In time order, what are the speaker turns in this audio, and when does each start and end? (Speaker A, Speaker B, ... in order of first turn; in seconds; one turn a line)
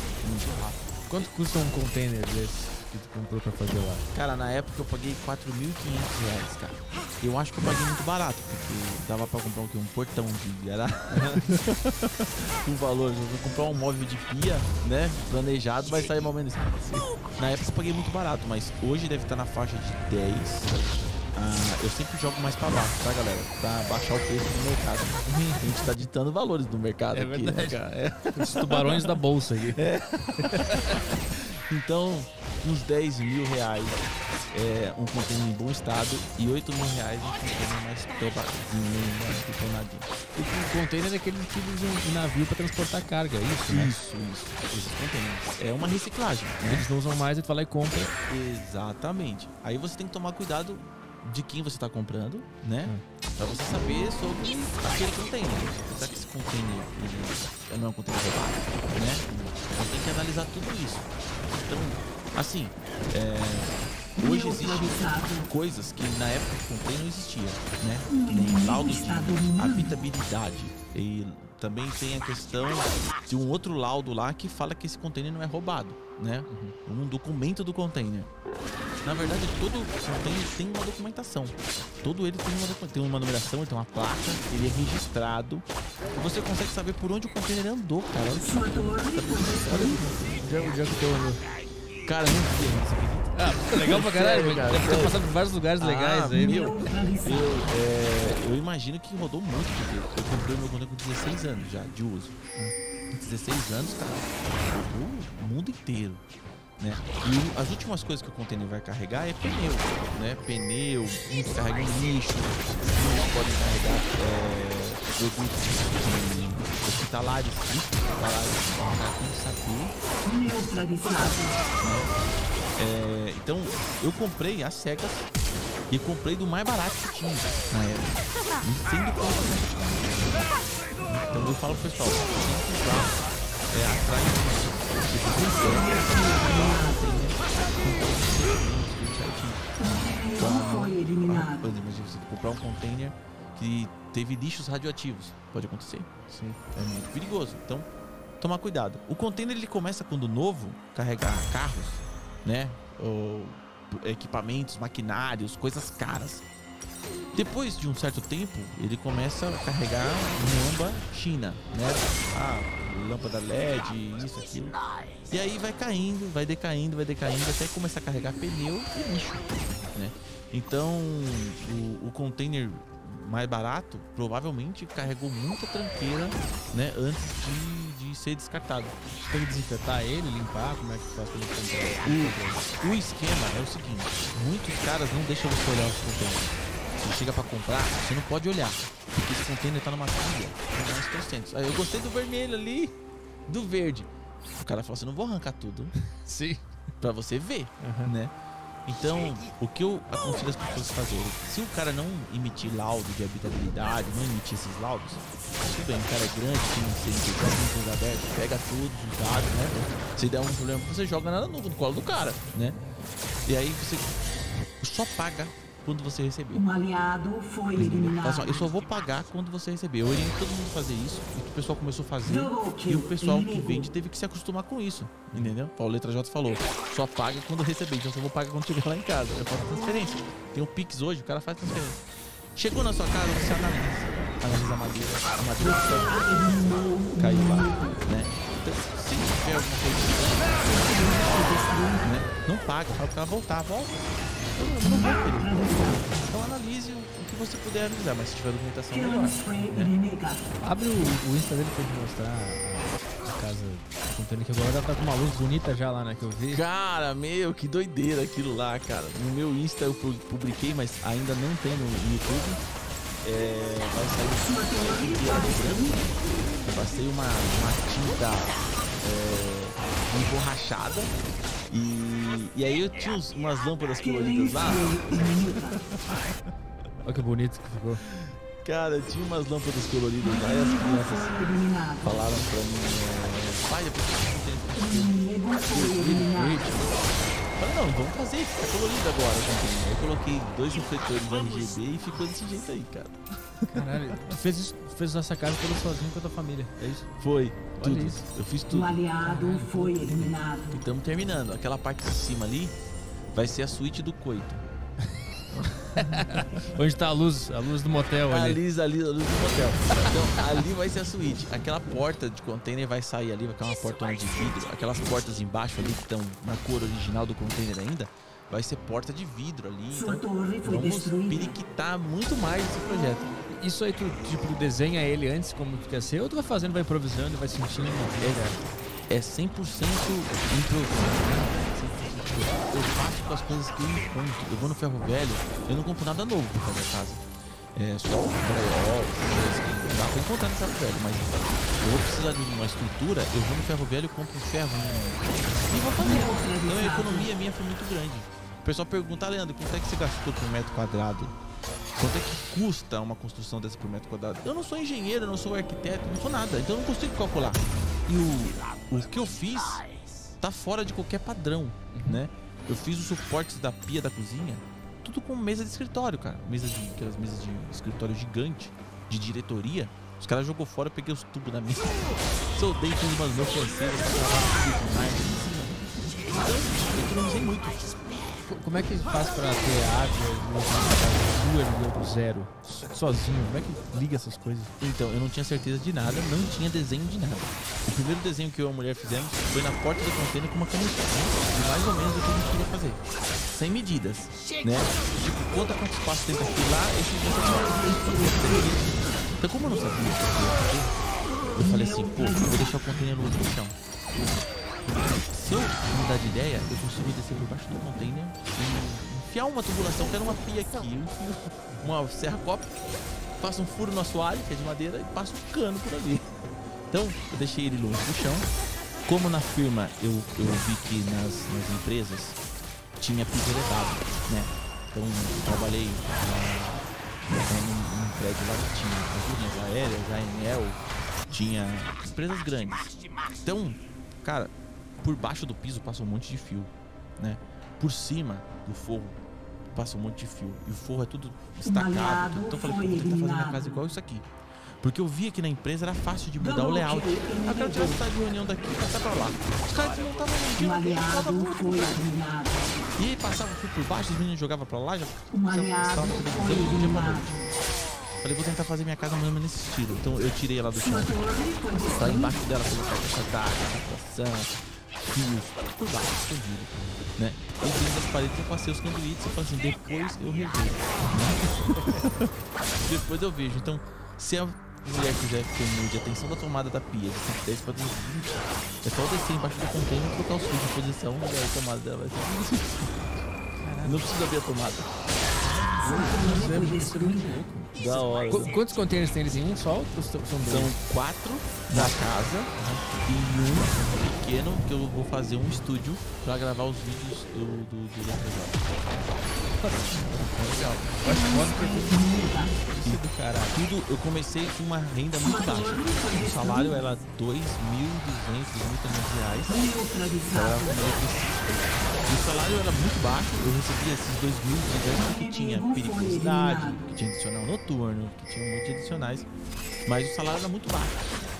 Speaker A: 0.2-0.8
Speaker B: 1.1-4.0
Speaker A: 4.1-40.1
Speaker B: 11.1-11.6
Speaker B: 25.2-25.8
Speaker B: 27.1-29.8
Speaker B: 30.4-31.0
Speaker B: 40.3-44.0
Speaker A: 43.7-46.8
Speaker B: 46.6-48.1
Speaker A: 48.3-78.3
Speaker C: 64.2-65.5
Speaker C: 68.1-70.0
Speaker B: 76.5-76.7
Speaker A: 79.0-90.5
Speaker C: 88.4-90.0
Speaker B: 89.7-91.4
Speaker A: 92.0-95.2
Speaker B: 93.3-96.7
Speaker A: 95.8-102.4
Speaker C: 96.3-97.6
Speaker A: 103.1-106.2
Speaker A: 106.8-122.1
Speaker C: 120.2-121.6
Speaker A: 122.8-125.3
Speaker A: 125.9-146.1
Speaker C: 135.5-137.2
Speaker C: 139.8-141.7
Speaker B: 146.3-146.6
Speaker A: 146.7-147.9
Speaker A: 148.4-156.4
Speaker A: 157.3-178.9
Speaker B: 179.2-182.6
Speaker A: 182.0-192.9
Speaker A: 193.5-195.9
Speaker B: 196.1-196.7
Speaker A: 197.0-198.3
Speaker B: 197.8-198.1
Speaker A: 198.8-212.8
Speaker A: 213.4-214.1
Speaker A: 214.8-216.6
Speaker C: 216.5-218.7
Speaker A: 217.7-232.0
Speaker C: 222.2-223.9
Speaker B: 225.3-225.6
Speaker A: 232.5-240.9
Speaker C: 235.6-238.0
Speaker C: 240.6-242.1
Speaker A: 242.0-244.0
Speaker A: 244.5-249.9
Speaker C: 244.8-246.3
Speaker C: 248.9-250.5
Speaker B: 250.6-256.6
Speaker A: 256.5-262.6
Speaker A: 263.2-266.1
Speaker C: 264.4-266.0
Speaker A: 266.6-271.1
Speaker A: 271.7-275.3
Speaker C: 274.0-275.8
Speaker B: 277.0-278.0
Speaker A: 278.1-281.3
Speaker C: 280.2-282.3
Speaker A: 282.0-294.3
Speaker C: 284.8-286.7
Speaker B: 293.7-297.1
Speaker A: 297.2-299.0
Speaker B: 297.8-298.2
Speaker C: 298.7-300.8
Speaker B: 299.2-300.3
Speaker A: 300.7-302.7
Speaker A: 303.3-304.6
Speaker B: 305.9-308.6
Speaker A: 306.2-306.6
Speaker A: 308.2-323.3
Speaker C: 319.9-321.6
Speaker B: 323.5-328.6
Speaker A: 328.2-328.6
Speaker A: 329.1-351.3
Speaker C: 346.0-347.3
Speaker A: 351.9-359.9
Speaker A: 360.4-378.0
Speaker B: 361.9-362.2
Speaker B: 378.5-384.7
Speaker A: 384.8-400.9
Speaker C: 397.5-398.7
Speaker A: 401.5-403.8
Speaker C: 401.6-402.8
Speaker A: 405.0-412.8
Speaker A: 413.4-416.3
Speaker A: 416.9-418.5
Speaker A: 419.1-422.4
Speaker A: 423.0-426.9
Speaker A: 427.4-439.2
Speaker A: 439.7-444.3
Speaker C: 441.6-443.8
Speaker A: 444.8-452.1
Speaker C: 446.4-448.0
Speaker C: 450.6-452.9
Speaker A: 453.0-457.5
Speaker C: 455.3-457.4
Speaker A: 458.2-461.2
Speaker C: 460.7-462.4
Speaker A: 461.9-464.5
Speaker A: 465.0-483.1
Speaker B: 471.8-472.0
Speaker B: 483.6-484.1
Speaker A: 483.8-484.9
Speaker B: 485.4-490.7
Speaker C: 485.8-487.4
Speaker A: 487.8-488.5
Speaker A: 490.4-499.0
Speaker B: 491.7-492.0
Speaker B: 492.6-492.9
Speaker B: 499.6-500.2
Speaker A: 499.9-501.0
Speaker B: 501.0-503.5
Speaker C: 501.0-502.6
Speaker A: 502.8-509.6
Speaker C: 505.2-506.8
Speaker C: 509.5-510.7
Speaker A: 510.2-519.3
Speaker C: 515.0-516.8
Speaker A: 519.8-521.0